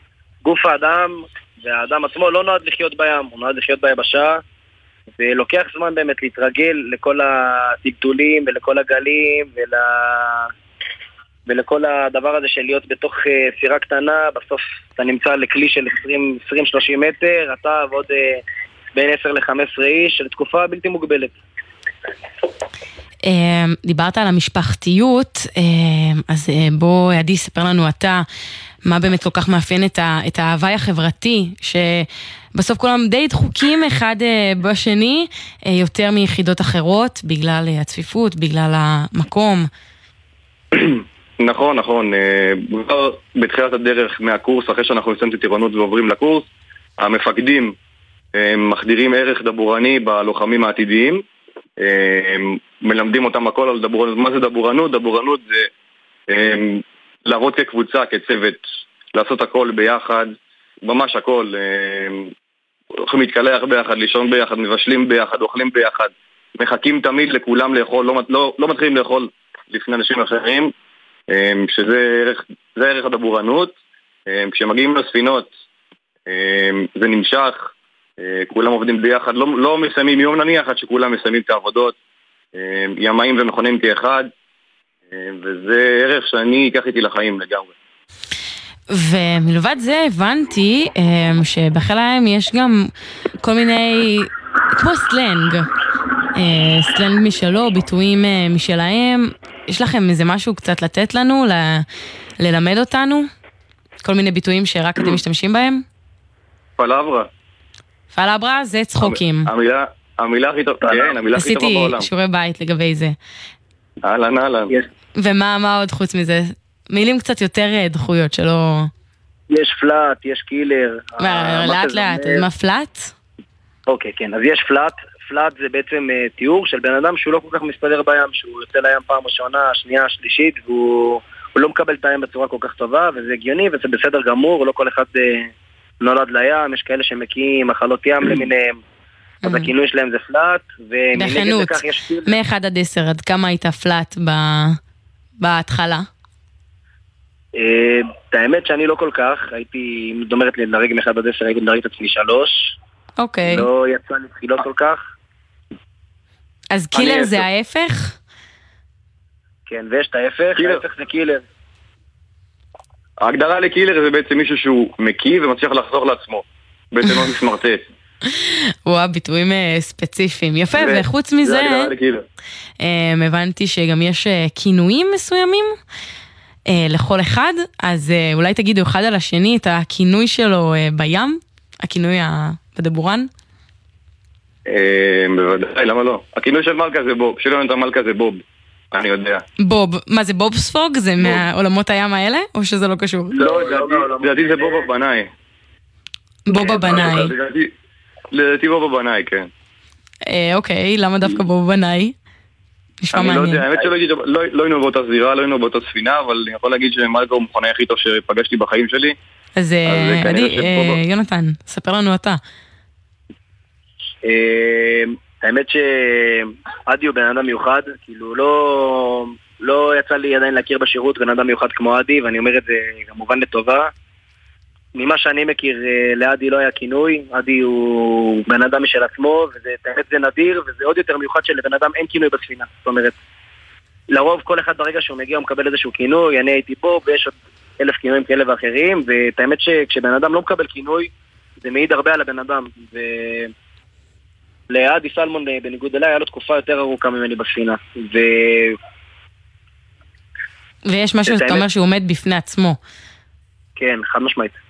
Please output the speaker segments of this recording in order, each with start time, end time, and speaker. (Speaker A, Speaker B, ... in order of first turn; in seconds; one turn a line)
Speaker A: 0.4-4.4
Speaker A: 5.2-10.5
Speaker A: 11.5-18.4
Speaker A: 18.9-21.3
Speaker B: 23.2-28.2
Speaker B: 28.9-39.7
Speaker C: 40.8-46.5
Speaker C: 47.0-47.8
Speaker C: 48.4-51.2
Speaker C: 51.8-55.7
Speaker C: 56.3-58.6
Speaker C: 59.1-60.3
Speaker C: 60.9-62.3
Speaker C: 63.0-70.7
Speaker C: 71.3-73.8
Speaker C: 74.3-75.5
Speaker C: 76.3-82.0
Speaker C: 82.5-84.3
Speaker C: 85.1-87.7
Speaker B: 88.9-92.9
Speaker B: 93.4-95.7
Speaker B: 96.4-101.8
Speaker B: 102.4-103.3
Speaker B: 104.0-105.8
Speaker C: 106.8-107.3
Speaker B: 108.1-109.5
Speaker C: 109.0-112.1
Speaker A: 110.8-111.2
Speaker B: 111.3-113.2
Speaker C: 114.0-114.7
Speaker B: 115.2-118.9
Speaker A: 119.5-122.5
Speaker B: 121.2-123.1
Speaker A: 123.9-138.8
Speaker B: 139.4-139.7
Speaker A: 139.4-142.3
Speaker B: 141.2-144.8
Speaker B: 145.4-146.1
Speaker A: 147.6-152.8
Speaker B: 153.2-153.7
Speaker A: 153.5-155.0
Speaker B: 156.7-158.2
Speaker C: 156.9-157.4
Speaker A: 159.7-161.4
Speaker C: 160.6-160.8
Speaker C: 163.2-167.9
Speaker B: 168.3-171.9
Speaker C: 170.7-172.2
Speaker B: 172.8-175.8
Speaker B: 176.7-183.3
Speaker C: 184.7-188.4
Speaker C: 188.9-189.4
Speaker B: 189.6-193.4
Speaker A: 193.3-194.8
Speaker C: 193.4-195.3
Speaker B: 196.5-197.3
Speaker C: 196.5-197.7
Speaker C: 198.3-199.5
Speaker B: 200.3-202.2
Speaker B: 203.0-203.7
Speaker C: 203.1-209.2
Speaker B: 209.6-212.4
Speaker C: 209.9-211.0
Speaker A: 214.2-223.9
Speaker A: 224.9-233.2
Speaker A: 234.1-243.5
Speaker A: 244.7-248.8
Speaker B: 250.9-252.8
Speaker A: 251.3-251.6
Speaker A: 253.8-254.6